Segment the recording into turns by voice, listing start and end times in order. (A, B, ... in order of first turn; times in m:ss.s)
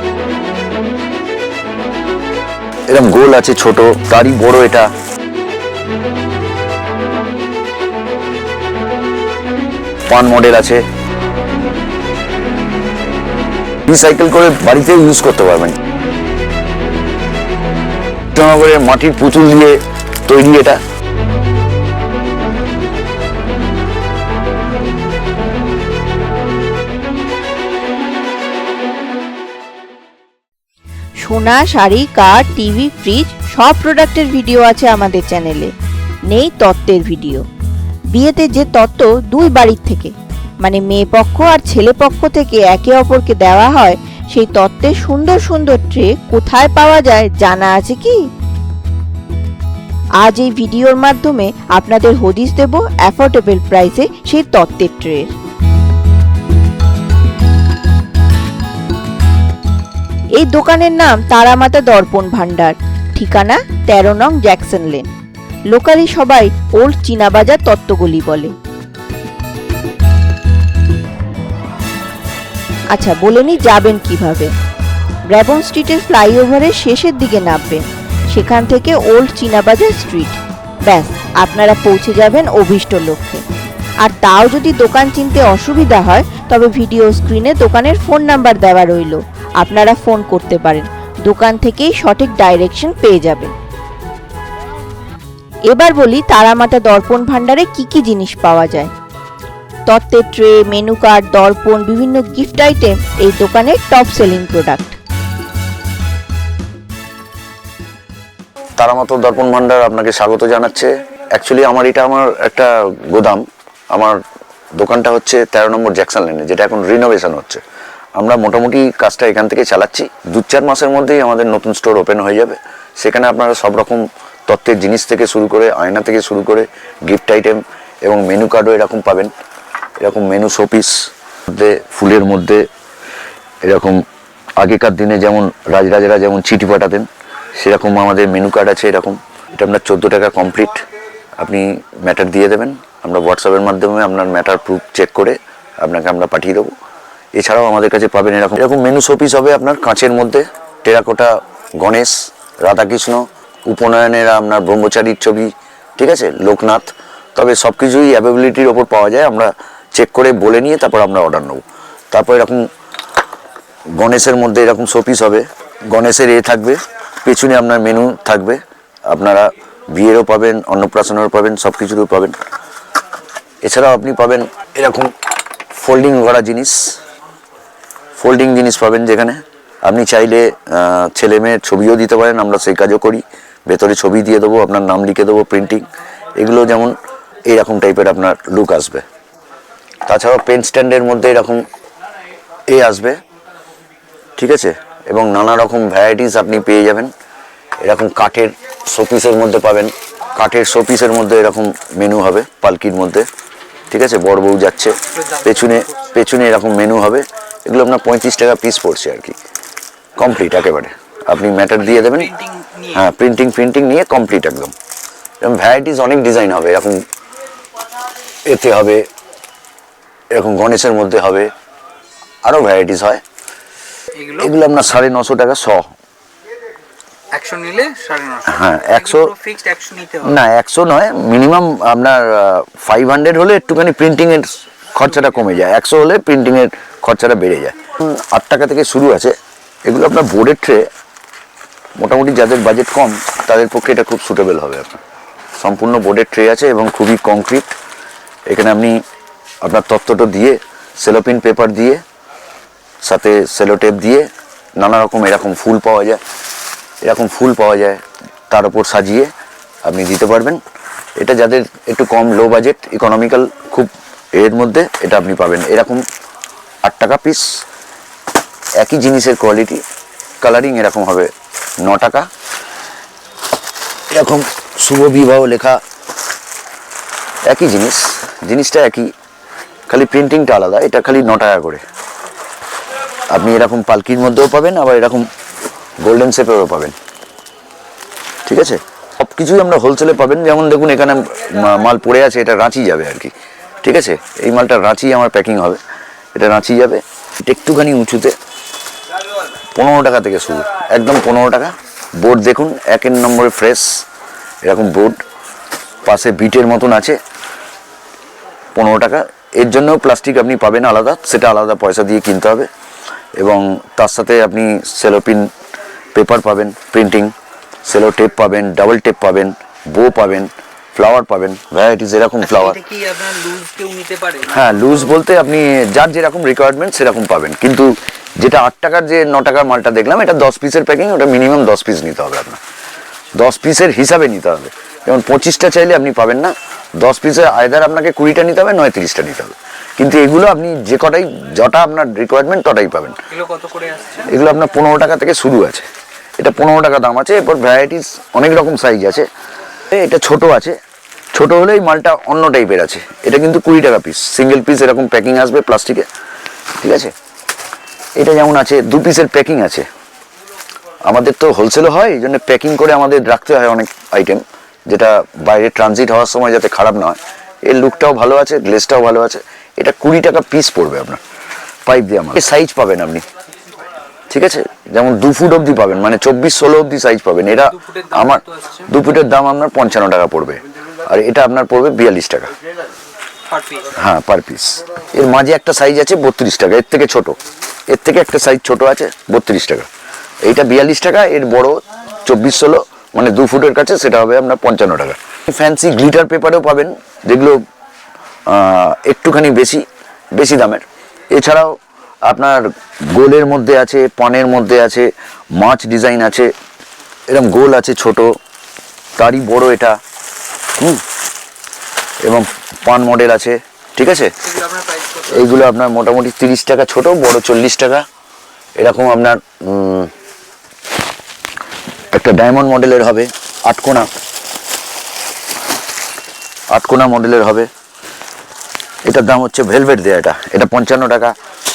0:02.9-0:04.9 A
0:10.1-0:10.8 A
0:13.9-0:15.8 A
0:18.3-0:20.8 A
0:31.2-0:35.7 B
0:36.3-0:37.4 B
0:38.1-0:48.2 B
0:50.2-0:55.3 B
1:00.4-1:05.1 B
1:05.7-1:08.5 B
1:12.9-1:14.5 B
1:15.3-1:23.4 B
1:24.0-1:33.5 B
1:35.7-1:38.9 B
1:39.9-1:45.0 B
1:48.8-1:54.2 A
1:54.7-1:57.6 A
1:58.2-2:09.3 A
2:10.0-2:12.7 A
2:13.6-2:20.8 A
2:21.4-2:26.7 A
2:27.3-2:42.7 A
2:43.9-2:52.4 A
2:53.6-2:55.1 A
2:55.7-2:57.0 A
2:58.2-3:05.8 A
3:06.4-3:09.0 A
3:10.0-3:11.6 A
3:12.7-3:13.2 A
3:14.4-3:17.1 A
3:17.8-3:23.3 A
3:23.9-3:29.4 A
3:25.0-3:26.0 C
3:30.2-3:32.3 A
3:31.8-3:33.0 C
3:32.9-3:34.7 A
3:35.4-3:37.0 A
3:38.4-3:39.1 A
3:40.3-3:41.5 A
3:42.4-3:43.2 A
3:44.1-3:44.5 C
3:44.4-3:45.9 A
3:47.3-3:50.4 C
3:48.4-3:49.3 A
3:50.2-4:00.9 A
4:02.0-4:05.0 A
4:05.6-4:07.7 A
4:08.5-4:09.0 A
4:09.6-4:12.0 A
4:13.0-4:16.2 A
4:17.0-4:19.3 A
4:19.8-4:20.6 A
4:21.2-4:26.0 A
4:26.8-4:27.6 A
4:28.8-4:29.8 A
4:30.4-4:32.3 A
4:34.1-4:35.8 A
4:37.4-4:39.1 A
4:39.9-4:41.8 A
4:43.3-4:45.3 A
4:46.0-4:47.0 A
4:48.4-4:55.8 A
4:56.3-4:58.4 A
4:59.7-5:04.0 A
5:04.6-5:05.2 A
5:06.0-5:07.2 A
5:08.7-5:12.7 A
5:13.4-5:15.5 A
5:16.1-5:17.3 A
5:17.8-5:22.8 A
5:22.4-5:25.1 C
5:24.5-5:32.6 A
5:33.3-5:43.2 A
5:43.3-5:44.3 C
5:44.3-5:45.8 A
5:46.4-5:49.3 A
5:49.9-5:50.8 A
5:51.3-5:56.1 A
5:56.8-5:57.1 A
5:58.2-5:59.8 A
6:01.0-6:11.2 A
6:11.8-6:13.2 A
6:14.3-6:22.5 A
6:17.6-6:18.9 C
6:23.5-6:23.9 C
6:23.9-6:27.4 A
6:27.9-6:29.9 A
6:30.4-6:37.6 A
6:38.4-6:46.5 A
6:47.3-6:48.4 A
6:49.2-6:50.0 A
6:50.8-6:51.0 A
6:52.2-6:54.3 A
6:54.4-6:55.6 C
6:55.3-6:58.0 A
6:58.8-7:00.1 A
7:02.1-7:04.1 A
7:06.7-7:07.7 A
7:09.0-7:11.3 A